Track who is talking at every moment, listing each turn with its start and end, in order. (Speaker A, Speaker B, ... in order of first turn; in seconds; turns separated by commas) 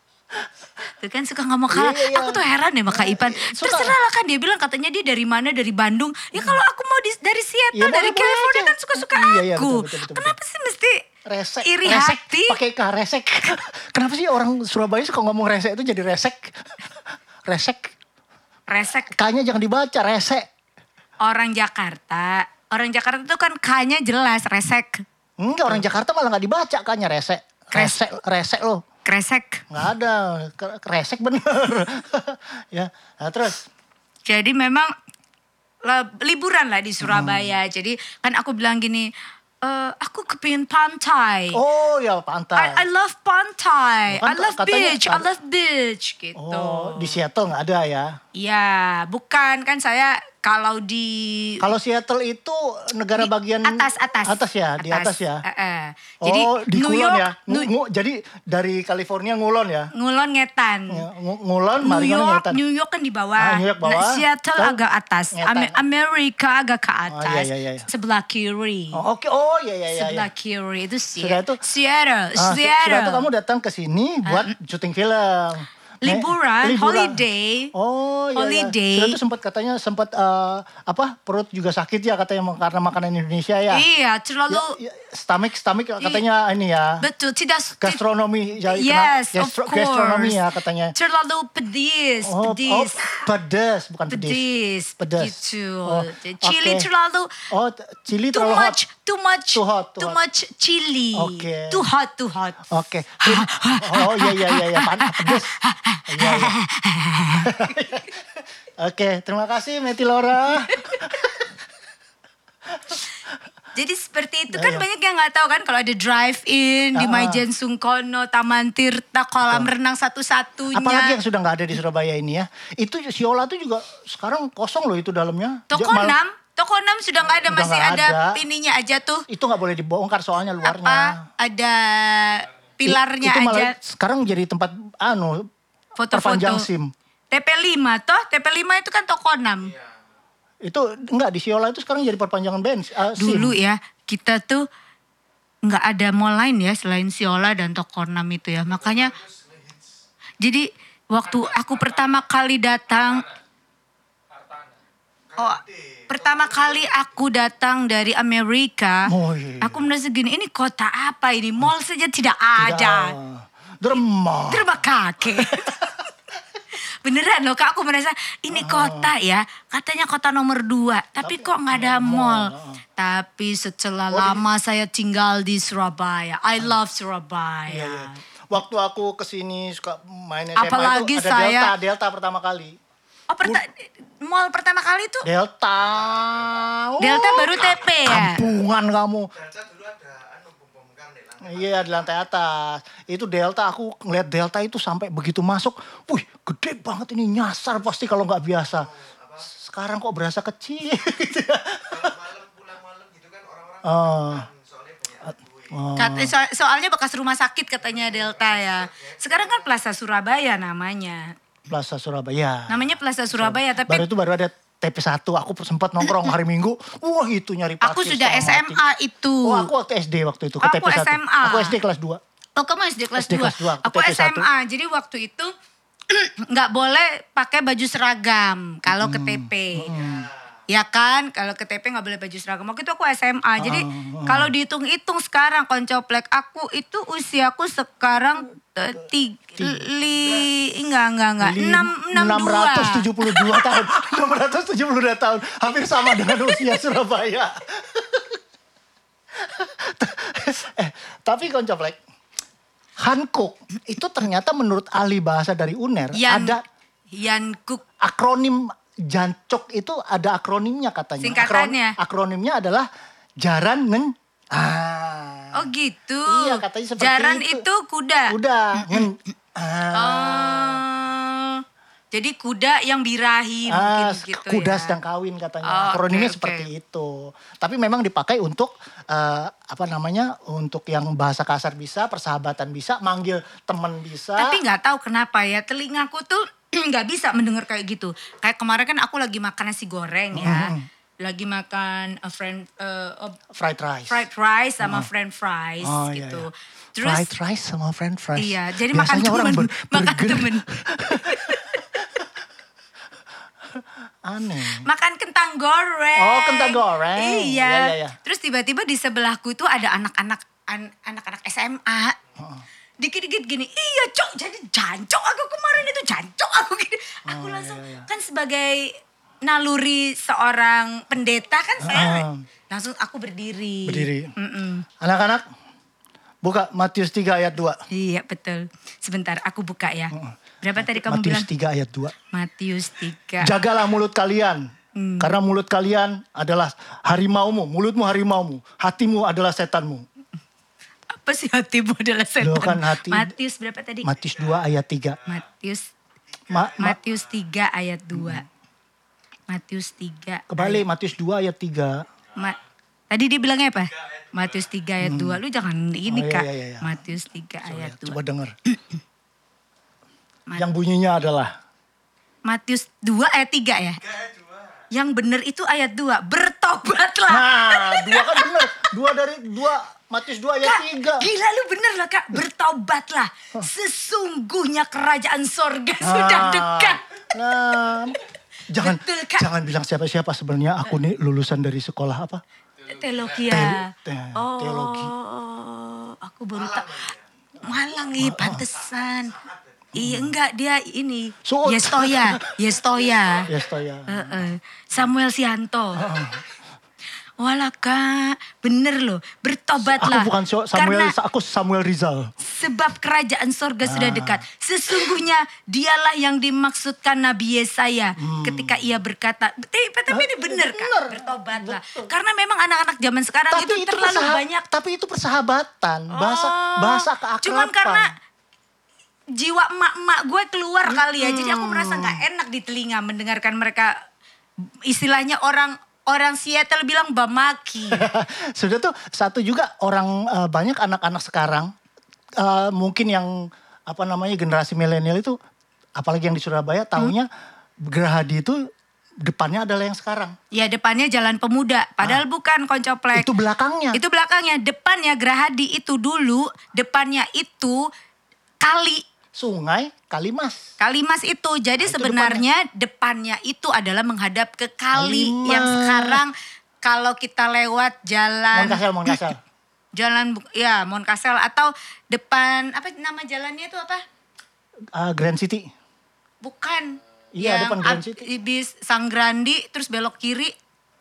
Speaker A: 1.0-11.0, Speaker B: 1.7-3.9, Speaker B: 7.7-10.4, Speaker B: 11.2-17.9, Speaker A: 11.6-12.6, Speaker A: 18.7-19.2, Speaker B: 19.1-20.5, Speaker A: 21.2-25.0, Speaker B: 25.4-28.8, Speaker A: 29.0-29.6, Speaker B: 29.7-33.7, Speaker A: 34.3-34.9, Speaker A: 35.9-39.1, Speaker B: 37.0-37.5, Speaker A: 39.6-41.6, Speaker B: 41.5-42.8, Speaker A: 42.5-47.2, Speaker B: 44.1-45.3, Speaker B: 46.4-48.1, Speaker A: 48.4-51.6, Speaker B: 51.6-55.4, Speaker A: 53.2-57.7, Speaker B: 56.2-59.9, Speaker A: 59.9-61.0, Speaker B: 60.9-62.6, Speaker A: 61.8-69.0, Speaker B: 63.4-64.8, Speaker B: 65.3-65.8, Speaker B: 67.1-67.9, Speaker B: 68.9-70.3, Speaker A: 69.9-73.2, Speaker B: 71.2-71.6, Speaker B: 72.4-77.2, Speaker A: 74.2-74.5, Speaker A: 76.0-77.7, Speaker B: 77.7-83.8, Speaker A: 78.3-79.2, Speaker A: 83.7-84.8, Speaker B: 84.5-87.0, Speaker A: 87.0-88.0, Speaker B: 87.8-90.9, Speaker A: 88.7-90.4, Speaker A: 90.9-93.3, Speaker B: 92.2-94.4, Speaker A: 94.1-97.5, Speaker B: 95.0-96.9, Speaker B: 97.5-98.8, Speaker A: 98.3-107.5, Speaker B: 99.5-100.2, Speaker B: 101.1-101.8, Speaker B: 102.7-105.5, Speaker B: 106.1-106.6, Speaker B: 107.4-111.5, Speaker A: 110.7-111.2, Speaker B: 112.7-113.0, Speaker A: 113.8-121.2, Speaker B: 114.5-114.8, Speaker B: 116.9-117.4, Speaker B: 119.4-119.7, Speaker B: 120.7-126.2, Speaker A: 125.7-129.2, Speaker B: 127.2-128.4, Speaker B: 129.3-131.3, Speaker A: 130.6-133.8, Speaker B: 132.8-135.5, Speaker A: 136.0-136.7, Speaker B: 136.1-136.9, Speaker A: 137.3-139.7, Speaker C: 139.6-140.0, Speaker B: 140.6-143.6, Speaker A: 143.2-144.7, Speaker A: 145.6-149.1, Speaker C: 148.6-150.0, Speaker A: 150.4-153.3, Speaker C: 155.3-157.3, Speaker A: 155.4-163.2, Speaker B: 159.1-159.8, Speaker B: 162.6-164.7, Speaker A: 164.5-165.9, Speaker B: 165.3-165.8, Speaker A: 167.0-178.2, Speaker B: 168.5-169.1, Speaker B: 171.2-172.8, Speaker B: 174.1-174.4, Speaker B: 177.7-182.8, Speaker A: 180.6-181.7, Speaker A: 183.3-185.3, Speaker B: 185.2-189.3, Speaker C: 185.8-186.8, Speaker A: 187.0-188.5, Speaker C: 187.5-188.5, Speaker C: 189.3-192.2, Speaker B: 191.4-198.9, Speaker C: 198.6-199.5, Speaker B: 199.4-202.1, Speaker C: 201.8-205.9, Speaker B: 203.8-204.5, Speaker B: 205.7-206.3, Speaker A: 205.9-211.3, Speaker C: 207.8-209.7, Speaker B: 211.7-218.8, Speaker A: 212.7-214.1, Speaker A: 217.8-219.7, Speaker B: 219.4-222.2, Speaker A: 220.6-221.8, Speaker A: 222.6-225.5, Speaker B: 223.2-224.5, Speaker A: 226.1-230.0, Speaker B: 228.9-230.3, Speaker C: 229.8-230.5, Speaker A: 230.7-243.9, Speaker B: 233.6-234.5, Speaker C: 240.0-240.6, Speaker B: 241.4-248.4, Speaker A: 246.3-246.5, Speaker B: 249.3-252.0, Speaker B: 253.0-256.6, Speaker A: 256.1-256.6, Speaker A: 257.1-257.8, Speaker B: 258.0-262.9, Speaker A: 261.2-262.0, Speaker B: 263.4-265.7, Speaker A: 265.5-269.0, Speaker B: 266.2-267.6, Speaker B: 268.3-270.8, Speaker A: 269.9-275.0, Speaker B: 273.7-284.6, Speaker A: 275.6-276.7, Speaker A: 284.4-293.4, Speaker B: 290.3-290.9, Speaker B: 293.5-294.2, Speaker A: 294.1-297.3, Speaker B: 294.8-295.1, Speaker B: 295.8-296.5, Speaker B: 297.0-302.3, Speaker A: 298.4-302.0, Speaker B: 303.7-304.9, Speaker A: 304.8-312.2, Speaker B: 306.2-308.1, Speaker B: 312.4-312.6, Speaker A: 313.0-324.9, Speaker B: 317.3-318.1, Speaker B: 321.8-322.4, Speaker B: 323.9-324.3, Speaker B: 325.0-325.4, Speaker B: 326.4-327.8, Speaker A: 327.9-331.5, Speaker B: 330.1-332.1, Speaker A: 332.3-333.6, Speaker B: 333.4-334.7, Speaker A: 335.0-335.3, Speaker B: 335.2-340.0, Speaker A: 341.1-344.1, Speaker B: 342.4-343.3, Speaker B: 344.0-345.2, Speaker C: 344.2-345.4, Speaker A: 345.2-345.9, Speaker C: 346.3-347.5, Speaker B: 346.5-347.0, Speaker A: 346.8-348.5, Speaker B: 348.1-348.4, Speaker A: 349.5-350.9, Speaker B: 350.5-352.1, Speaker C: 352.3-352.6, Speaker A: 353.1-359.0, Speaker C: 353.9-354.9, Speaker B: 355.0-355.4, Speaker B: 356.1-357.0, Speaker B: 357.6-358.5, Speaker B: 360.6-361.5, Speaker A: 362.4-364.0, Speaker C: 363.9-364.9, Speaker A: 364.9-368.7, Speaker B: 367.3-371.3, Speaker A: 370.6-377.0, Speaker B: 376.0-378.2, Speaker B: 378.7-382.4, Speaker A: 378.8-379.5, Speaker A: 382.9-387.1, Speaker B: 383.4-385.1, Speaker C: 386.5-387.2, Speaker A: 387.6-389.4, Speaker B: 388.2-388.6, Speaker C: 388.6-389.9, Speaker B: 389.9-390.3, Speaker A: 390.0-393.5, Speaker B: 391.4-392.4, Speaker C: 392.9-393.7, Speaker B: 393.5-394.4, Speaker A: 394.1-396.1, Speaker B: 396.0-396.4, Speaker A: 397.4-401.1, Speaker B: 399.8-402.3, Speaker A: 402.4-414.6, Speaker B: 403.8-404.4, Speaker B: 408.2-408.8, Speaker B: 410.1-412.1, Speaker B: 413.5-418.1, Speaker A: 416.1-418.1, Speaker A: 419.3-424.0, Speaker B: 420.9-422.2, Speaker A: 424.9-428.1, Speaker B: 427.9-431.7, Speaker B: 432.4-435.4, Speaker B: 436.0-437.3, Speaker B: 437.8-438.7, Speaker B: 439.2-440.4, Speaker A: 440.5-443.3, Speaker B: 443.1-444.0, Speaker A: 443.9-447.9, Speaker A: 448.6-449.0, Speaker B: 449.3-450.6, Speaker A: 450.8-459.2, Speaker B: 451.8-452.4, Speaker B: 454.9-456.2, Speaker B: 458.5-459.4, Speaker A: 459.9-464.0, Speaker B: 464.9-465.7, Speaker A: 466.4-470.5, Speaker B: 467.3-468.3